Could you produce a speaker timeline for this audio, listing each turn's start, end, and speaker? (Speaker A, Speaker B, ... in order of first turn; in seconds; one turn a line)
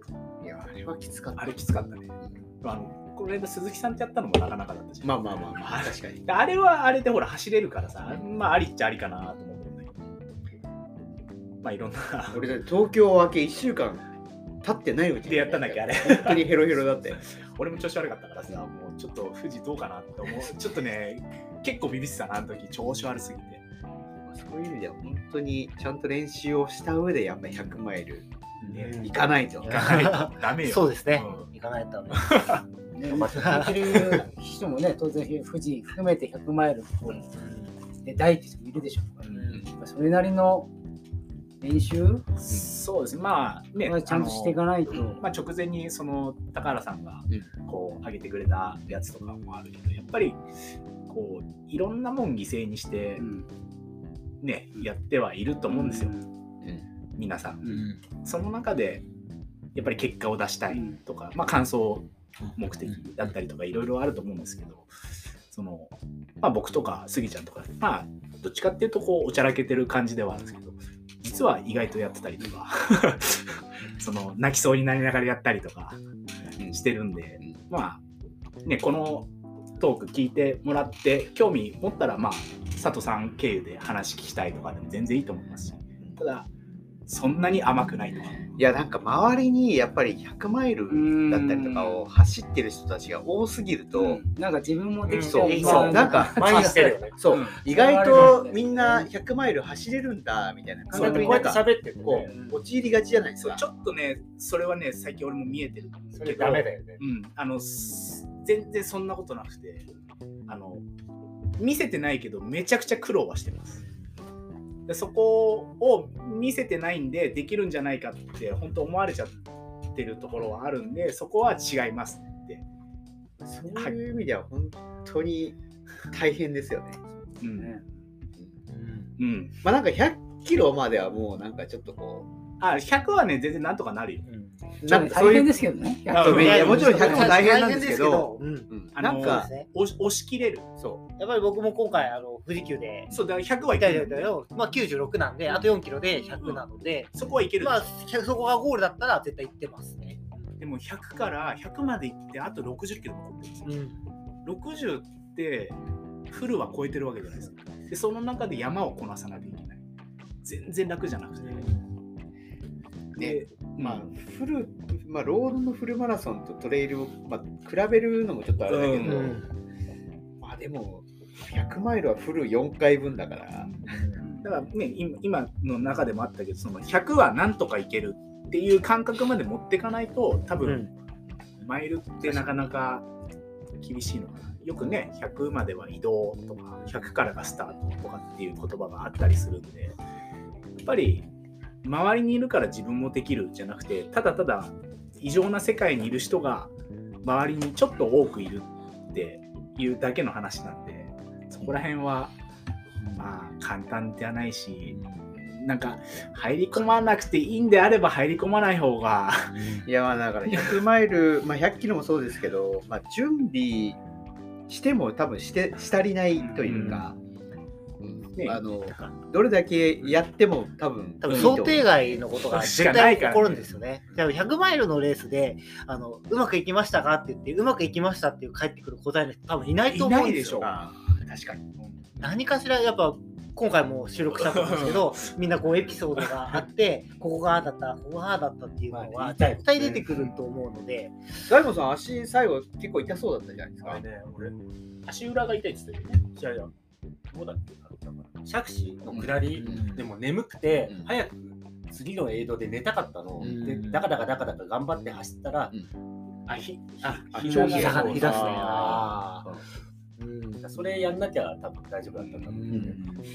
Speaker A: 0.4-1.6
Speaker B: 1.4-2.1
Speaker B: 2.6-9.9
Speaker A: 5.0-6.3
Speaker B: 11.6-12.5
Speaker A: 12.3-14.1
Speaker A: 14.6-17.2
Speaker B: 15.3-16.6
Speaker B: 17.2-23.6
Speaker A: 24.2-28.3
Speaker C: 28.6-29.1
Speaker B: 28.6-31.5
Speaker A: 28.9-29.9
Speaker C: 29.6-32.4
Speaker B: 32.1-32.6
Speaker D: 32.9-37.2
Speaker E: 33.1-34.1
Speaker C: 33.3-34.0
Speaker C: 37.4-37.7
Speaker D: 38.0-40.7
Speaker B: 39.2-39.6
Speaker C: 39.3-39.6
Speaker D: 41.6-42.2
Speaker B: 42.4-50.4
Speaker D: 43.8-45.2
Speaker B: 51.1-53.3
Speaker D: 53.2-53.5
Speaker B: 54.4-56.2
Speaker D: 55.7-56.2
Speaker B: 57.2-59.0
Speaker B: 59.7-64.9
Speaker B: 65.5-76.0
Speaker B: 76.6-78.0
Speaker B: 78.6-86.5
Speaker B: 87.1-88.5
Speaker A: 88.5-94.2
Speaker D: 90.9-92.0
Speaker D: 93.9-96.7
Speaker E: 95.1-97.3
Speaker A: 95.1-103.6
Speaker C: 95.3-97.0
Speaker B: 97.3-97.6
Speaker D: 97.5-99.1
Speaker D: 100.9-101.5
Speaker B: 100.9-101.4
Speaker E: 100.9-102.4
Speaker B: 103.4-109.9
Speaker E: 106.2-107.0
Speaker B: 110.5-110.8
Speaker B: 111.6-113.8
Speaker B: 114.9-119.4
Speaker B: 119.9-122.6
Speaker A: 123.4-125.6
Speaker A: 126.1-127.1
Speaker B: 127.4-127.7
Speaker D: 127.6-127.8
Speaker C: 128.7-129.1
Speaker B: 129.2-129.5
Speaker A: 129.6-132.3
Speaker B: 132.6-134.2
Speaker D: 134.8-137.4
Speaker A: 134.9-139.5
Speaker B: 136.1-136.9
Speaker C: 136.3-139.7
Speaker B: 138.9-140.7
Speaker C: 141.2-143.1
Speaker B: 143.1-144.3
Speaker C: 143.7-150.4
Speaker B: 146.4-147.9
Speaker B: 150.6-153.7
Speaker C: 153.6-154.0
Speaker B: 154.4-155.8
Speaker B: 156.3-159.8
Speaker B: 160.4-161.7
Speaker C: 161.4-161.9
Speaker B: 163.2-164.1
Speaker A: 163.2-169.4
Speaker B: 168.7-169.4
Speaker C: 169.0-169.5
Speaker A: 170.4-173.7
Speaker B: 173.6-180.9
Speaker C: 180.6-180.9
Speaker B: 181.6-183.1
Speaker B: 183.8-189.9
Speaker B: 190.8-191.2
Speaker B: 191.8-196.7
Speaker B: 197.2-202.3
Speaker B: 203.2-209.7
Speaker A: 209.8-214.0
Speaker B: 210.5-210.8
Speaker A: 214.7-217.2
Speaker B: 216.6-217.1
Speaker A: 218.0-222.2
Speaker B: 218.4-218.7
Speaker C: 221.2-230.5
Speaker B: 221.2-221.7
Speaker B: 222.5-223.8
Speaker B: 229.8-230.8
Speaker A: 230.3-231.7
Speaker C: 232.2-241.3
Speaker B: 234.4-235.2
Speaker B: 236.2-236.6
Speaker E: 238.9-240.3
Speaker A: 241.5-244.0
Speaker E: 243.8-244.6
Speaker B: 245.1-246.2
Speaker E: 246.3-246.7
Speaker E: 247.3-255.7
Speaker A: 249.0-249.8
Speaker C: 249.5-250.0
Speaker C: 253.4-254.1
Speaker B: 256.5-259.1
Speaker A: 257.1-258.6
Speaker E: 257.3-259.2
Speaker C: 257.4-259.4
Speaker C: 260.2-260.6
Speaker E: 260.5-263.1
Speaker C: 262.4-263.0
Speaker A: 262.7-263.1